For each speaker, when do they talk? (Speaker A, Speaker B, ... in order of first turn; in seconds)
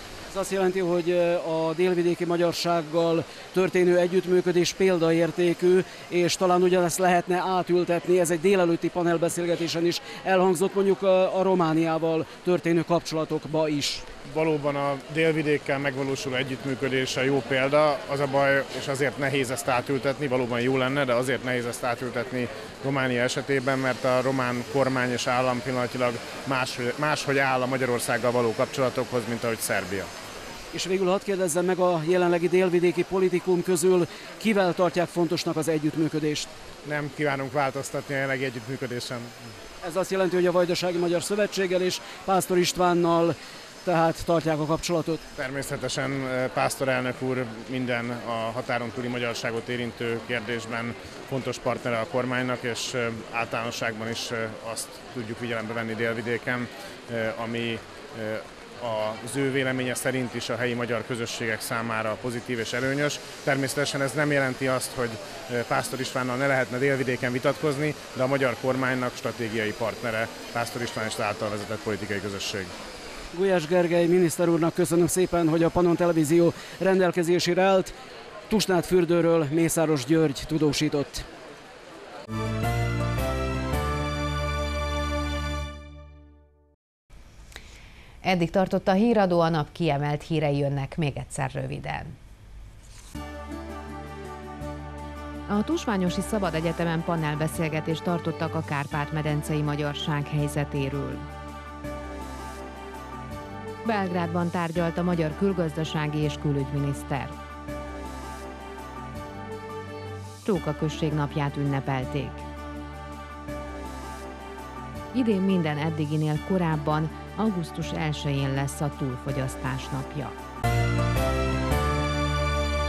Speaker A: 0.3-14.1, 30.7-36.5, 39.8-45.2, 73.3-77.9, 78.5-81.2
Speaker B: 14.3-30.1, 36.8-39.4, 45.4-72.7
Speaker C: 88.2-92.1, 95.5-101.3, 103.8-107.3, 110.4-112.5, 115.1-120.3